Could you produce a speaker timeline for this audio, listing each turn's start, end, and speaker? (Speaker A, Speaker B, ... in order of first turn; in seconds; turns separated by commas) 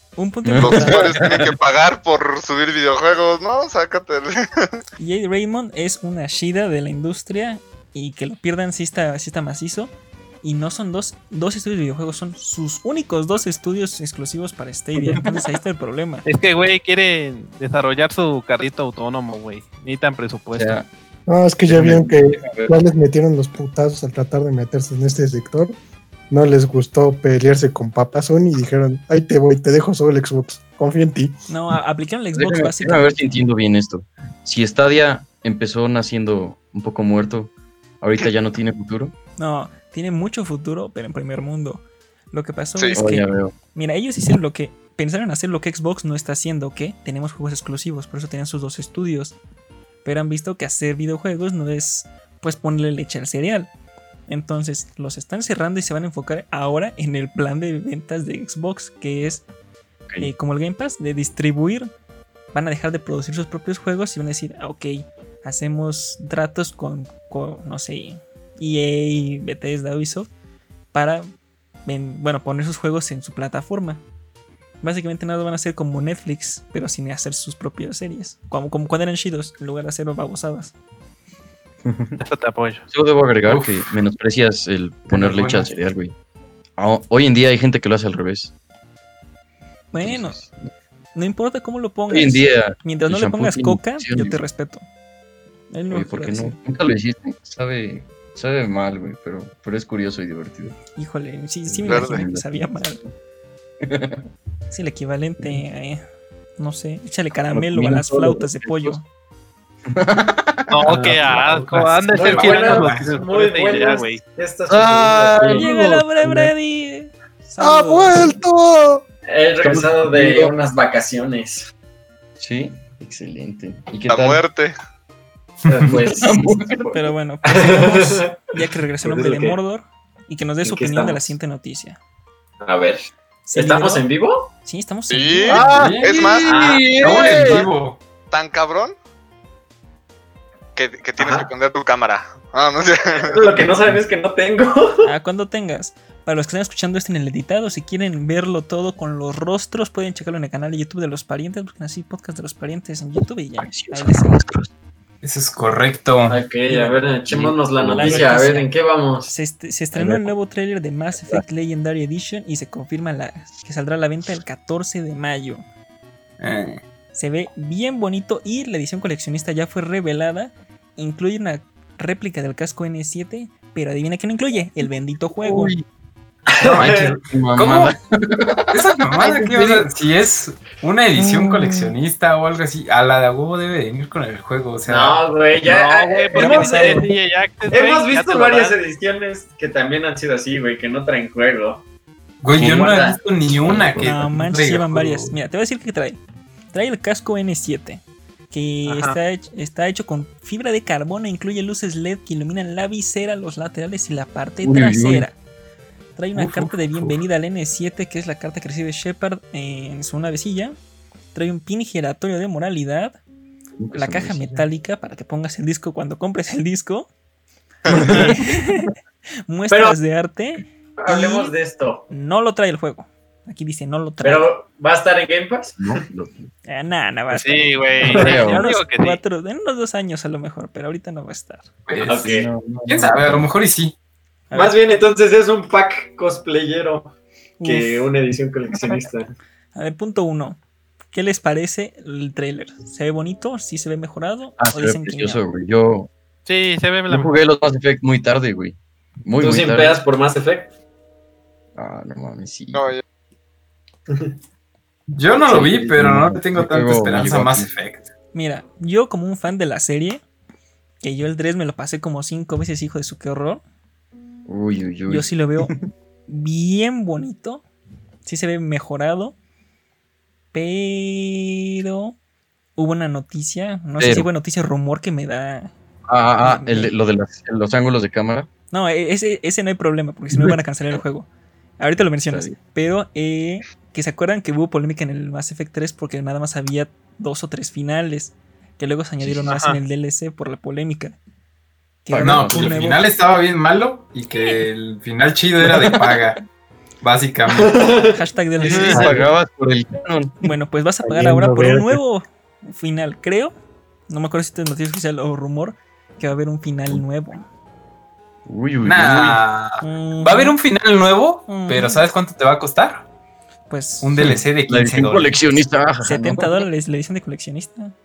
Speaker A: 0.1-1.4, Speaker B: 0.4-1.5, Speaker C: 0.6-4.8, Speaker A: 5.0-9.9, Speaker A: 10.4-16.2, Speaker B: 15.0-15.5, Speaker D: 16.2-20.8, Speaker B: 20.5-20.9, Speaker E: 21.3-25.7, Speaker B: 21.7-22.7, Speaker E: 26.3-31.4, Speaker A: 31.5-33.2, Speaker B: 32.4-39.1, Speaker A: 39.4-49.4, Speaker B: 42.9-43.5, Speaker A: 50.0-53.7, Speaker A: 54.3-59.4, Speaker A: 60.2-61.9, Speaker A: 62.5-70.3, Speaker A: 70.9-71.3, Speaker A: 71.9-74.0, Speaker A: 74.8-80.7, Speaker B: 81.8-82.2, Speaker D: 82.2-82.8, Speaker B: 82.9-86.1, Speaker F: 83.4-83.9, Speaker F: 85.1-85.7, Speaker B: 86.8-88.5, Speaker A: 89.9-90.4, Speaker B: 90.0-90.7, Speaker A: 91.1-94.8, Speaker B: 92.1-94.4, Speaker A: 95.7-96.6, Speaker B: 95.9-100.8, Speaker A: 101.0-103.0, Speaker B: 101.7-103.1, Speaker C: 101.9-102.2, Speaker B: 103.8-104.2, Speaker A: 104.7-106.0, Speaker A: 106.6-109.0, Speaker B: 107.5-109.0, Speaker B: 109.9-111.1, Speaker D: 110.7-114.2, Speaker F: 110.8-113.1, Speaker G: 112.2-115.7, Speaker B: 114.7-116.5, Speaker A: 115.4-118.4, Speaker E: 117.6-119.0, Speaker G: 119.2-121.7, Speaker B: 119.6-120.5, Speaker B: 122.4-124.4, Speaker C: 124.1-124.7, Speaker G: 125.7-126.5, Speaker B: 125.8-127.1, Speaker A: 126.9-132.0, Speaker G: 127.4-128.4, Speaker G: 129.0-129.6, Speaker G: 130.6-131.3, Speaker G: 132.6-133.0, Speaker A: 133.4-134.1, Speaker G: 133.5-134.5, Speaker A: 134.6-135.7, Speaker C: 135.1-136.7, Speaker B: 135.5-137.6, Speaker F: 135.7-138.0, Speaker G: 136.5-137.6, Speaker C: 138.3-138.9, Speaker C: 140.8-143.4, Speaker G: 141.2-141.5, Speaker G: 143.3-145.1, Speaker A: 145.0-154.4, Speaker B: 153.6-154.7, Speaker F: 155.2-156.4, Speaker G: 156.3-159.3, Speaker B: 156.7-158.4, Speaker A: 157.8-158.7, Speaker A: 159.2-165.6, Speaker B: 159.9-160.3, Speaker B: 161.2-161.4, Speaker F: 166.4-166.8, Speaker A: 167.1-175.7, Speaker B: 175.4-175.9, Speaker G: 176.5-177.1, Speaker F: 176.6-177.9, Speaker B: 177.3-179.9, Speaker F: 178.7-185.2, Speaker B: 181.2-181.9, Speaker G: 184.9-187.1, Speaker D: 185.6-188.8, Speaker A: 186.4-186.9, Speaker G: 187.7-191.8, Speaker F: 192.4-195.3, Speaker G: 192.5-193.2, Speaker B: 193.7-194.2, Speaker A: 194.0-196.2, Speaker A: 196.7-205.3, Speaker D: 198.9-199.2, Speaker B: 204.6-205.2, Speaker A: 206.2-210.8, Speaker B: 206.3-207.2, Speaker A: 211.3-213.2, Speaker B: 213.8-214.6, Speaker A: 213.9-217.1, Speaker B: 217.9-218.9, Speaker A: 217.9-218.9, Speaker A: 219.5-221.5, Speaker G: 221.0-222.0, Speaker A: 222.1-224.5, Speaker G: 224.2-226.0, Speaker B: 225.8-226.5, Speaker A: 226.7-231.7, Speaker B: 227.3-228.7, Speaker D: 227.4-229.2, Speaker F: 231.9-232.3, Speaker G: 232.0-232.5, Speaker B: 232.2-233.5, Speaker F: 232.9-233.9, Speaker A: 234.5-234.8, Speaker G: 234.5-239.3, Speaker A: 237.6-238.1, Speaker A: 239.7-240.6, Speaker A: 241.1-245.4, Speaker B: 244.6-246.1, Speaker D: 246.4-247.3, Speaker B: 247.1-250.0, Speaker G: 249.4-250.7, Speaker B: 251.8-252.9, Speaker C: 252.7-253.0, Speaker F: 255.1-258.1, Speaker B: 255.3-257.7, Speaker A: 258.3-260.2, Speaker A: 261.0-263.6, Speaker B: 264.5-265.9, Speaker A: 265.1-265.7, Speaker A: 266.3-267.6, Speaker A: 268.2-269.4, Speaker A: 270.5-272.2, Speaker A: 272.8-275.7, Speaker B: 274.0-274.3, Speaker B: 276.1-278.5, Speaker A: 276.4-276.9, Speaker A: 278.7-281.3, Speaker B: 280.3-281.0, Speaker A: 281.8-291.1, Speaker B: 282.3-282.6, Speaker B: 289.2-289.5, Speaker D: 289.5-289.8, Speaker A: 292.0-293.0, Speaker B: 292.1-292.8, Speaker F: 292.2-296.4, Speaker B: 295.6-296.4, Speaker F: 297.0-297.9, Speaker G: 297.5-298.1, Speaker A: 298.1-299.2, Speaker B: 298.6-300.5, Speaker D: 298.7-299.1, Speaker A: 300.4-303.5, Speaker E: 301.0-302.0, Speaker A: 304.1-307.4, Speaker B: 308.4-309.4, Speaker F: 308.8-313.1, Speaker A: 309.8-310.6, Speaker A: 311.5-312.1, Speaker A: 313.7-314.1, Speaker F: 314.0-315.4, Speaker B: 314.2-316.6, Speaker A: 316.0-317.9